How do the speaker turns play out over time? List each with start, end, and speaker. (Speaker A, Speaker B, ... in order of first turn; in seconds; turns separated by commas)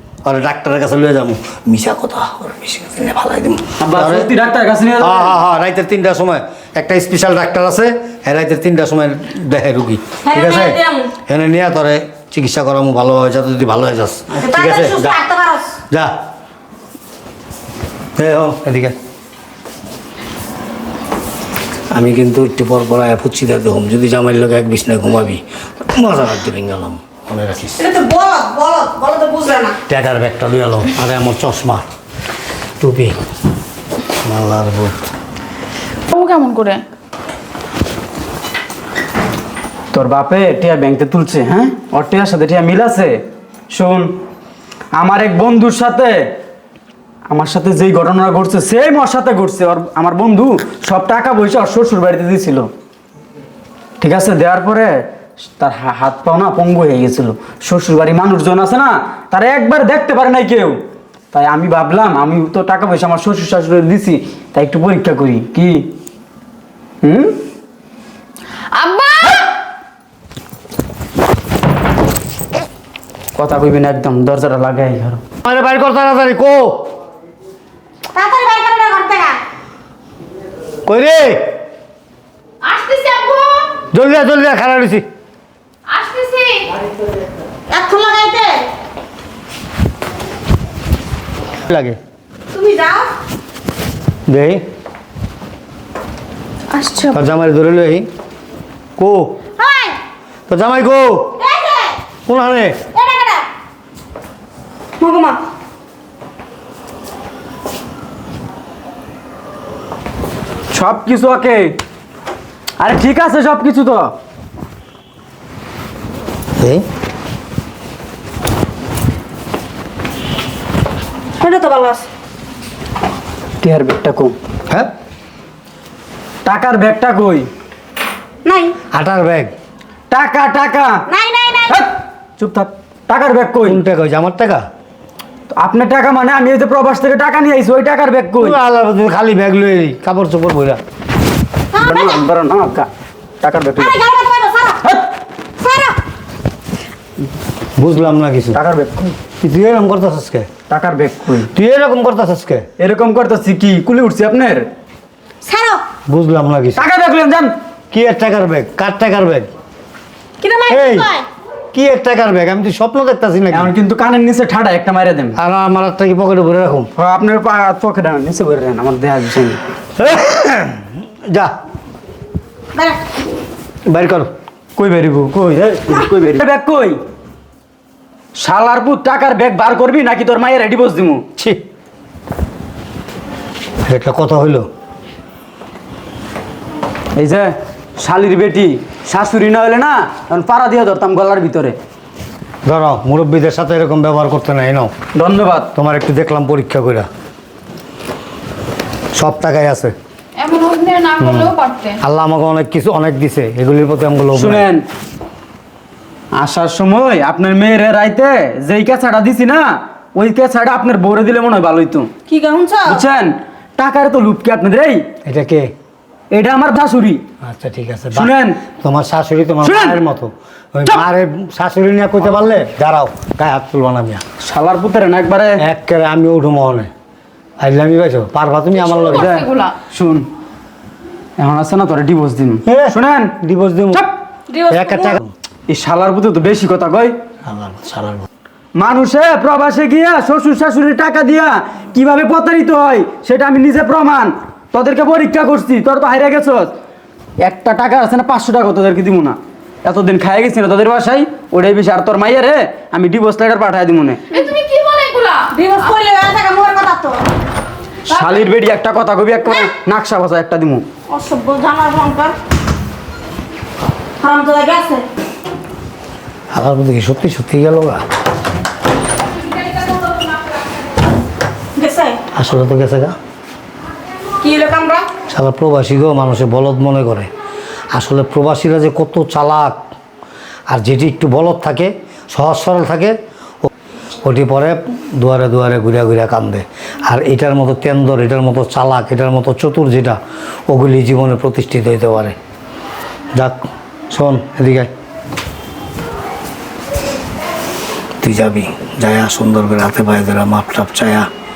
Speaker A: 0.2-4.3, Speaker B: 3.8-5.4, Speaker A: 5.0-15.2, Speaker C: 10.2-11.1, Speaker C: 14.4-15.7, Speaker A: 18.2-19.0, Speaker A: 21.9-27.8, Speaker C: 27.8-29.8, Speaker A: 29.9-31.9, Speaker A: 32.8-33.2, Speaker A: 34.2-35.0, Speaker D: 36.1-36.8, Speaker B: 39.9-44.2, Speaker B: 45.0-46.3, Speaker B: 47.3-52.7, Speaker B: 54.0-55.0, Speaker B: 55.6-60.8, Speaker B: 61.3-65.9, Speaker B: 67.0-67.3, Speaker D: 68.7-69.4, Speaker B: 73.4-75.2, Speaker A: 75.4-76.9, Speaker C: 78.1-79.4, Speaker A: 80.9-81.5, Speaker D: 82.6-83.7, Speaker A: 83.9-85.0, Speaker D: 85.9-86.8, Speaker C: 87.7-88.7, Speaker A: 91.7-92.0, Speaker C: 92.5-93.1, Speaker A: 94.3-94.6, Speaker D: 96.8-97.2, Speaker A: 97.1-98.1, Speaker A: 99.0-99.3, Speaker C: 99.6-100.0, Speaker A: 100.5-101.3, Speaker C: 101.4-102.0, Speaker A: 102.3-102.8, Speaker C: 102.9-103.5, Speaker C: 105.0-105.4, Speaker B: 110.7-111.8, Speaker B: 112.8-114.1, Speaker A: 116.6-116.8, Speaker C: 121.4-122.1, Speaker B: 123.6-124.3, Speaker B: 126.5-127.5, Speaker C: 128.4-128.8, Speaker A: 128.9-129.5, Speaker B: 130.1-131.1, Speaker C: 131.1-131.8, Speaker B: 131.7-133.8, Speaker A: 133.7-134.7, Speaker B: 135.6-138.6, Speaker A: 138.4-140.8, Speaker C: 141.7-142.2, Speaker B: 141.8-142.9, Speaker B: 143.4-144.0, Speaker C: 143.8-144.8, Speaker C: 145.6-146.0, Speaker A: 147.8-148.6, Speaker B: 148.5-149.2, Speaker A: 149.4-150.5, Speaker B: 150.7-151.5, Speaker A: 151.5-152.7, Speaker B: 152.8-154.7, Speaker C: 155.4-155.8, Speaker A: 156.1-156.9, Speaker B: 156.8-157.5, Speaker A: 157.9-159.5, Speaker C: 160.4-161.3, Speaker A: 160.7-161.1, Speaker A: 161.7-163.7, Speaker B: 163.5-165.4, Speaker A: 165.4-166.9, Speaker B: 167.0-169.6, Speaker A: 170.0-171.5, Speaker C: 172.7-173.0, Speaker A: 173.9-174.3, Speaker B: 174.8-177.0, Speaker B: 178.4-181.2, Speaker A: 183.9-184.7, Speaker B: 187.2-191.8, Speaker A: 192.7-194.9, Speaker B: 195.2-195.7, Speaker A: 195.8-197.1, Speaker A: 199.1-199.9, Speaker D: 200.4-202.0, Speaker A: 201.2-204.7, Speaker B: 204.3-204.8, Speaker B: 206.4-212.1, Speaker C: 212.3-213.0, Speaker B: 212.9-215.1, Speaker A: 215.2-215.7, Speaker B: 216.3-217.2, Speaker A: 217.4-224.2, Speaker B: 218.1-218.6, Speaker B: 219.6-220.0, Speaker B: 224.4-225.6, Speaker A: 225.6-226.9, Speaker A: 227.6-229.3, Speaker D: 228.8-229.8, Speaker B: 229.1-230.3, Speaker B: 231.4-233.3, Speaker A: 232.7-234.1, Speaker C: 234.6-235.2, Speaker A: 234.7-235.3, Speaker B: 235.7-237.1, Speaker A: 237.4-238.3, Speaker B: 238.8-246.8, Speaker B: 247.4-254.4, Speaker D: 254.4-255.5, Speaker C: 255.5-257.2, Speaker B: 258.1-260.9, Speaker C: 261.1-262.4, Speaker C: 264.2-265.1, Speaker A: 266.5-268.0, Speaker C: 271.8-272.2, Speaker A: 272.4-273.2, Speaker C: 274.4-275.1, Speaker A: 275.3-277.3, Speaker A: 277.9-279.8, Speaker A: 280.7-283.7, Speaker A: 284.2-290.2, Speaker A: 290.7-292.4, Speaker A: 293.4-294.9, Speaker A: 298.2-301.3